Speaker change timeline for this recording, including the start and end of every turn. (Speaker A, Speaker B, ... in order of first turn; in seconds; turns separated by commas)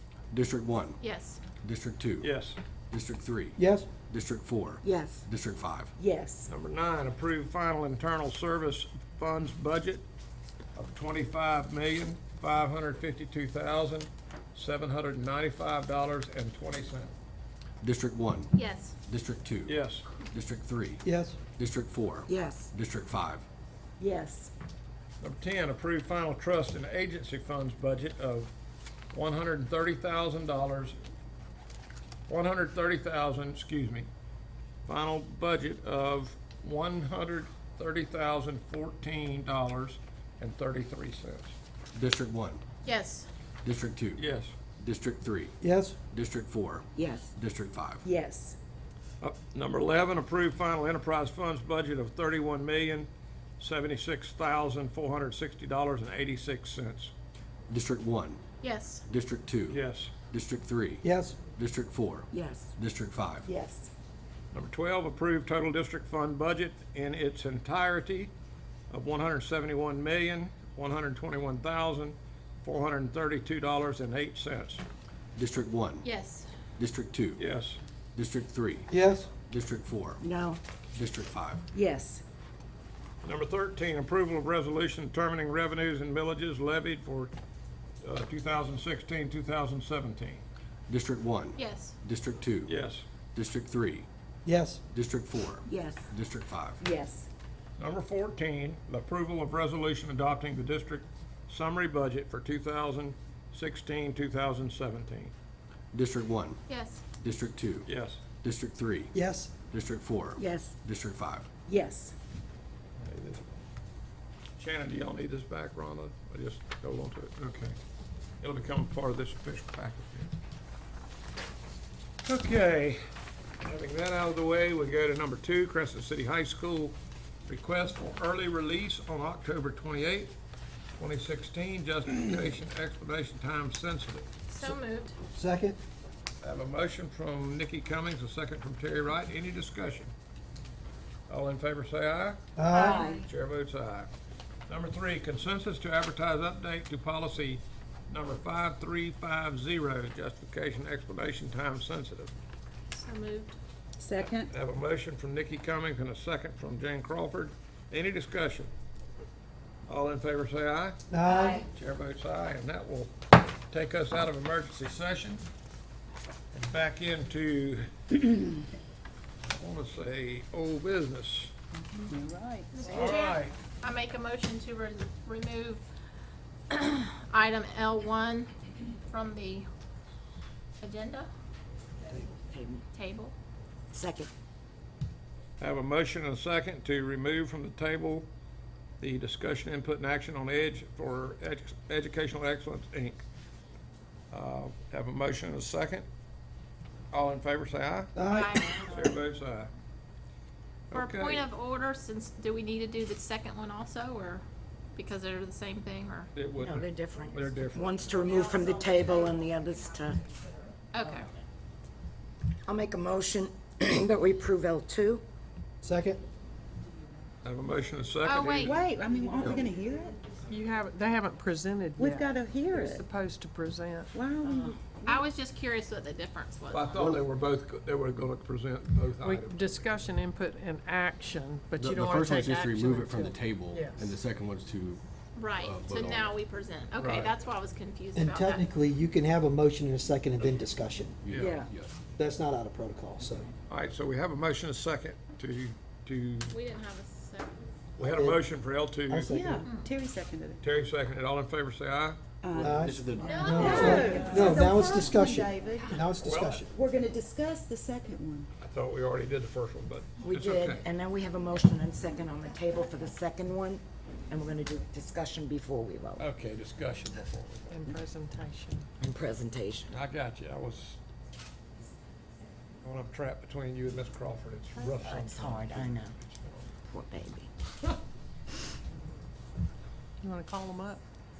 Speaker A: 0.3-1.0, Speaker B: 1.0-1.4, Speaker A: 1.6-2.3, Speaker C: 2.2-2.6, Speaker A: 2.9-5.9, Speaker D: 3.6-3.9, Speaker E: 4.8-5.2, Speaker E: 6.0-6.5, Speaker C: 6.5-10.0, Speaker C: 10.7-17.1, Speaker A: 17.8-18.5, Speaker B: 18.5-18.9, Speaker A: 19.1-23.4, Speaker C: 19.7-20.0, Speaker D: 21.0-21.4, Speaker E: 22.3-22.7, Speaker E: 24.0-24.5, Speaker C: 25.2-28.5, Speaker C: 29.1-31.0, Speaker C: 32.3-34.1, Speaker C: 34.9-41.5, Speaker A: 41.9-42.6, Speaker B: 42.8-43.3, Speaker A: 43.6-44.2, Speaker C: 44.2-44.5, Speaker A: 44.8-45.5, Speaker D: 45.6-46.0, Speaker A: 46.1-48.0, Speaker E: 47.0-47.3, Speaker E: 48.1-48.5, Speaker C: 49.2-57.1, Speaker A: 57.7-58.4, Speaker B: 58.6-59.0, Speaker A: 59.1-63.5, Speaker C: 59.7-60.1, Speaker D: 61.0-61.4, Speaker E: 62.3-62.7, Speaker E: 63.4-63.9, Speaker C: 64.5-68.3, Speaker C: 68.9-74.8, Speaker A: 75.3-76.0, Speaker B: 76.0-76.5, Speaker A: 76.8-77.4, Speaker C: 77.4-77.8, Speaker A: 78.1-78.9, Speaker D: 78.9-79.3, Speaker A: 79.4-80.3, Speaker E: 80.2-80.6, Speaker A: 80.9-81.6, Speaker E: 81.7-82.2, Speaker C: 83.2-87.3, Speaker C: 88.0-90.4, Speaker A: 90.9-92.8, Speaker B: 91.6-91.9, Speaker C: 92.7-93.0, Speaker A: 93.3-94.1, Speaker D: 94.4-94.8, Speaker A: 94.9-96.8, Speaker E: 95.7-96.1, Speaker E: 96.9-97.1, Speaker C: 97.8-105.3, Speaker A: 105.9-106.6, Speaker B: 106.7-107.0, Speaker A: 107.2-107.9, Speaker C: 107.8-108.2, Speaker A: 108.4-109.1, Speaker D: 109.1-109.5, Speaker A: 109.7-111.5, Speaker E: 110.4-110.7, Speaker E: 111.7-112.1, Speaker C: 113.0-113.5, Speaker C: 114.6-117.8, Speaker C: 118.4-120.3, Speaker C: 122.2-123.0, Speaker C: 123.6-126.9, Speaker C: 127.5-130.3, Speaker C: 131.0-134.3, Speaker B: 134.5-135.1, Speaker D: 135.3-135.8, Speaker C: 136.4-140.1, Speaker C: 141.3-142.4, Speaker D: 142.6-143.0, Speaker E: 142.7-143.2, Speaker B: 142.8-143.2, Speaker C: 142.9-144.1, Speaker C: 144.7-152.3, Speaker B: 152.9-153.6, Speaker F: 154.0-154.5, Speaker C: 154.2-158.7, Speaker C: 159.9-163.1, Speaker D: 161.1-161.6, Speaker C: 163.7-165.4, Speaker C: 166.5-168.4, Speaker C: 169.5-171.5, Speaker F: 172.0-172.7, Speaker B: 172.7-175.8, Speaker C: 172.8-173.5, Speaker B: 176.7-178.5, Speaker B: 179.1-179.7, Speaker B: 180.8-181.3, Speaker E: 182.1-182.8, Speaker B: 182.9-183.3, Speaker E: 183.9-184.3, Speaker C: 185.6-188.3, Speaker C: 189.0-193.2, Speaker C: 194.3-196.1, Speaker C: 197.1-199.7, Speaker D: 198.1-198.6, Speaker B: 198.2-199.1, Speaker C: 200.9-201.5, Speaker B: 200.9-204.4, Speaker B: 204.9-206.3, Speaker C: 206.3-207.9, Speaker E: 206.6-210.2, Speaker B: 210.9-211.3, Speaker E: 212.6-215.2, Speaker D: 215.8-216.2, Speaker C: 217.4-218.9, Speaker B: 218.2-218.8, Speaker F: 218.6-220.2, Speaker G: 220.4-224.1, Speaker F: 222.0-223.0, Speaker F: 224.1-224.8, Speaker B: 225.0-227.1, Speaker C: 226.7-229.8, Speaker G: 229.2-234.1, Speaker A: 231.8-236.3, Speaker B: 235.3-238.7, Speaker C: 237.0-237.3, Speaker D: 238.1-241.2, Speaker A: 241.2-242.0, Speaker C: 241.3-241.6, Speaker E: 241.3-241.7, Speaker D: 242.2-243.5, Speaker C: 243.7-246.5, Speaker B: 246.5-247.5, Speaker C: 248.0-249.3, Speaker D: 248.0-248.4, Speaker D: 249.1-249.7, Speaker F: 249.2-250.6, Speaker B: 249.6-249.9, Speaker C: 250.6-252.2, Speaker F: 252.4-256.0, Speaker A: 252.5-254.2, Speaker D: 252.6-256.8, Speaker B: 253.2-254.6, Speaker E: 253.7-254.6, Speaker C: 253.9-254.3, Speaker C: 256.2-256.7, Speaker F: 256.7-258.5, Speaker C: 258.6-260.8, Speaker E: 260.2-266.2, Speaker C: 266.2-267.9, Speaker G: 267.7-268.9, Speaker E: 269.0-269.9, Speaker C: 269.9-271.0, Speaker C: 272.8-276.7, Speaker E: 275.0-276.1, Speaker E: 276.9-277.5, Speaker G: 280.2-281.0